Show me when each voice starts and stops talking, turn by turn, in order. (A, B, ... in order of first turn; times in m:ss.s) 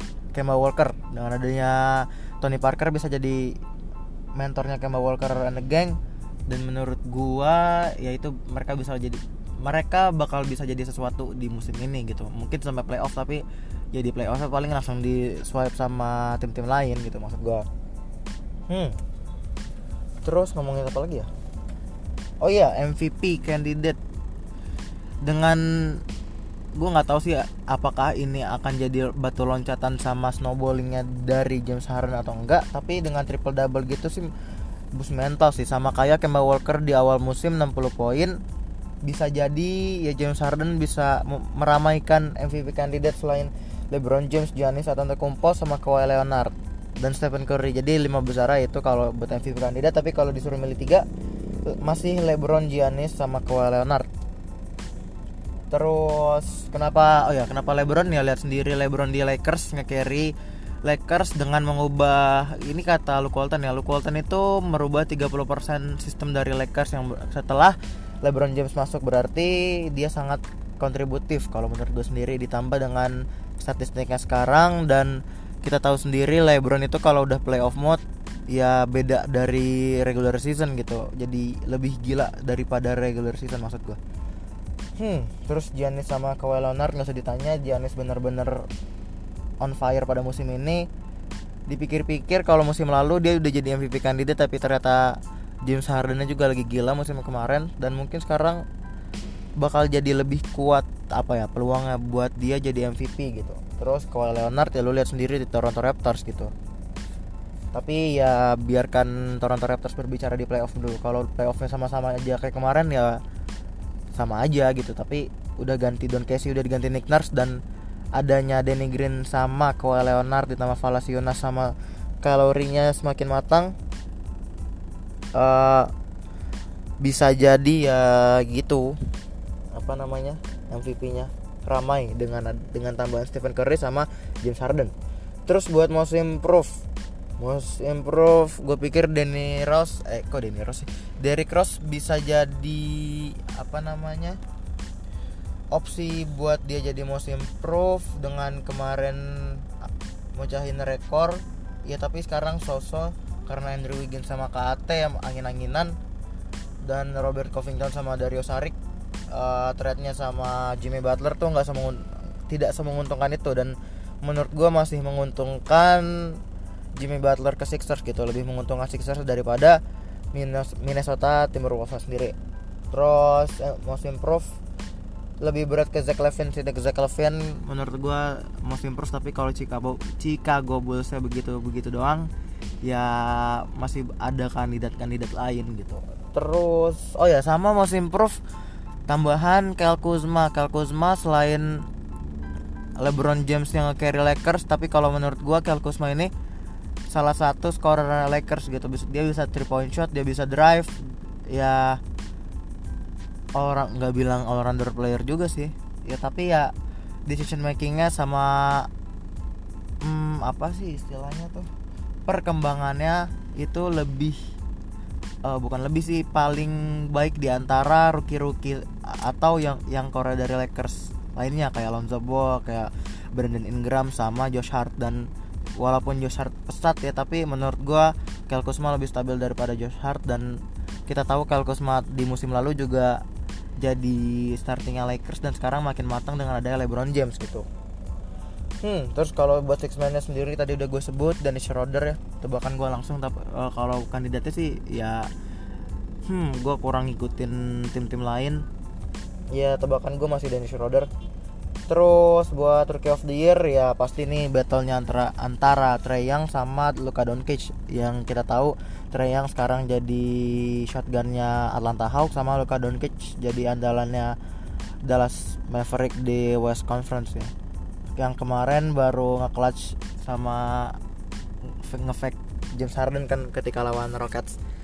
0:00.3-0:03.6 A
0:04.4-0:17.7 A
0:18.7-0:19.0 A
0:20.2-0:21.3 A
0:22.4-0:24.0 A
0:25.2-0:26.0 A
0:26.8-0:34.3 A
0:34.9-0:38.4 A
0:39.0-0:51.1 A
0:51.6-0:54.1 A
0:55.7-1:24.0 A
1:25.0-1:28.7 A
1:29.6-1:30.9 A
1:31.7-1:38.6 A
1:39.6-1:46.5 A
1:47.7-1:53.2 A
1:54.1-1:57.6 A
1:58.2-2:03.8 A
2:05.3-2:05.9 A
2:07.0-2:09.0 A
2:09.7-2:14.9 A
2:15.5-2:16.9 A
2:17.4-2:24.4 A
2:25.7-2:36.0 A
2:36.8-2:38.8 A
2:39.3-2:46.4 A
2:47.0-2:49.8 A
2:50.3-2:52.4 A
2:52.9-2:54.6 A
2:55.4-3:02.3 A
3:02.8-3:08.4 A
3:09.1-3:11.9 A
3:13.0-3:16.3 A
3:17.1-3:22.0 A
3:23.6-3:26.7 A
3:27.3-3:28.9 A
3:30.0-3:31.7 A
3:32.3-3:34.5 A
3:35.4-3:53.2 A
3:53.8-3:57.7 A
3:58.8-4:05.3 A
4:06.2-4:08.6 A
4:09.5-4:11.1 A
4:11.9-4:24.4 A
4:25.0-4:27.5 A
4:28.2-4:31.0 A
4:31.6-4:34.6 A